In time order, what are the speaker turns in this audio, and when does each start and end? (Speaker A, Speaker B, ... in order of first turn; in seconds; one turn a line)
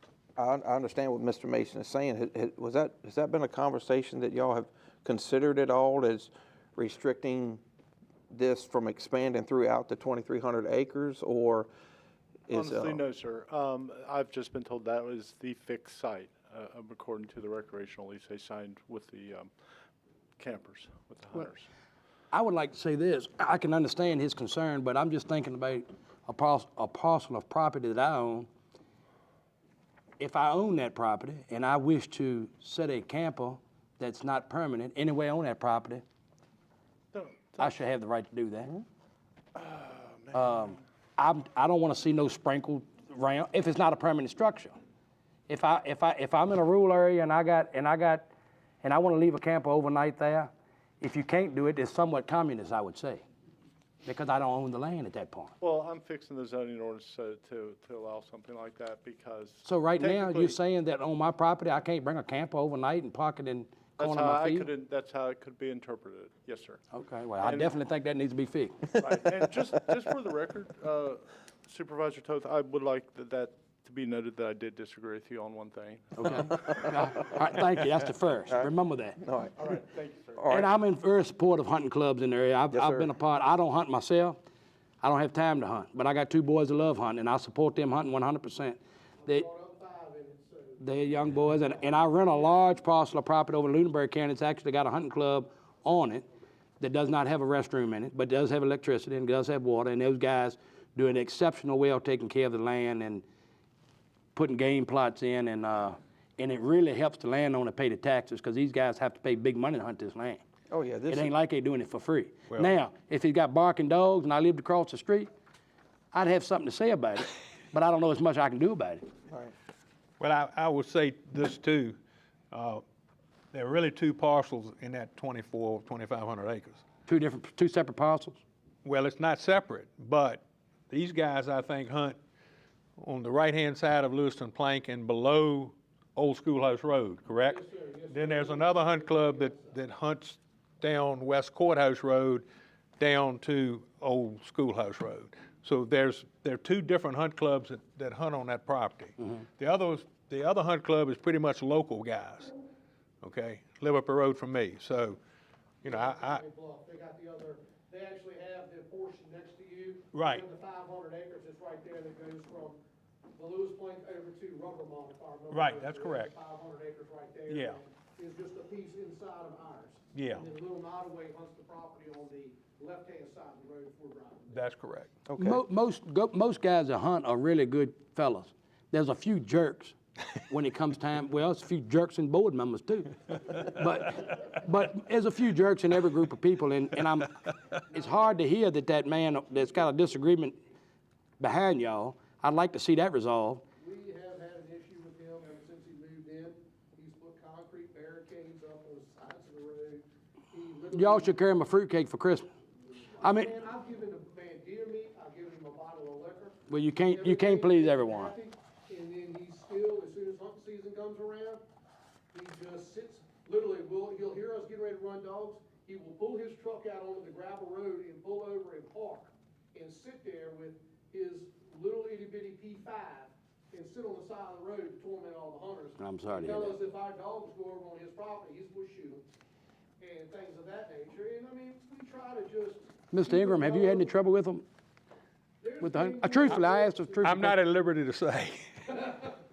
Speaker A: 0.3-7.6
Speaker A: 8.3-11.7
Speaker A: 12.5-13.0
Speaker B: 12.5-19.5
Speaker B: 20.4-21.7
Speaker C: 22.3-28.5
Speaker C: 30.2-36.0
Speaker B: 37.1-37.8
Speaker C: 37.6-38.7
Speaker B: 39.5-40.7
Speaker C: 40.3-44.8
Speaker C: 45.5-48.3
Speaker C: 48.8-50.5
Speaker C: 51.0-53.2
Speaker C: 54.0-55.5
Speaker B: 55.6-60.6
Speaker C: 59.6-64.7
Speaker B: 64.0-66.8
Speaker C: 66.9-68.9
Speaker B: 67.4-67.8
Speaker B: 69.0-77.3
Speaker C: 76.2-79.2
Speaker A: 78.5-79.5
Speaker B: 79.6-80.6
Speaker A: 80.4-80.7
Speaker C: 80.5-84.4
Speaker A: 82.7-83.1
Speaker C: 85.0-89.5
Speaker D: 89.2-90.8
Speaker C: 90.8-96.2
Speaker D: 92.0-92.5
Speaker C: 96.8-103.2
Speaker C: 104.3-110.4
Speaker A: 110.7-111.3
Speaker C: 111.1-115.3
Speaker C: 116.1-119.0
Speaker E: 120.2-122.0
Speaker E: 122.5-122.8
Speaker E: 123.5-126.8
Speaker C: 127.1-128.4
Speaker E: 128.8-132.2
Speaker E: 133.0-142.4
Speaker D: 137.4-139.8
Speaker E: 143.0-152.5
Speaker E: 153.2-155.2
Speaker E: 155.8-156.4
Speaker D: 155.8-162.8
Speaker E: 160.1-160.4
Speaker D: 163.3-174.6
Speaker E: 165.5-166.3
Speaker E: 167.5-167.8
Speaker E: 170.1-170.4
Speaker E: 174.5-175.2
Speaker A: 175.3-175.6
Speaker C: 175.4-179.9
Speaker C: 180.5-187.4
Speaker D: 187.9-188.4
Speaker C: 187.9-190.6
Speaker C: 191.4-193.6
Speaker D: 193.8-201.6
Speaker C: 200.9-202.5
Speaker D: 202.8-211.6
Speaker C: 203.2-203.5
Speaker C: 206.7-208.3
Speaker D: 212.3-229.2
Speaker C: 226.0-226.8
Speaker D: 230.0-234.1
Speaker C: 233.1-234.6
Speaker D: 235.6-237.9
Speaker C: 235.8-237.6
Speaker E: 237.2-239.0
Speaker D: 238.9-239.4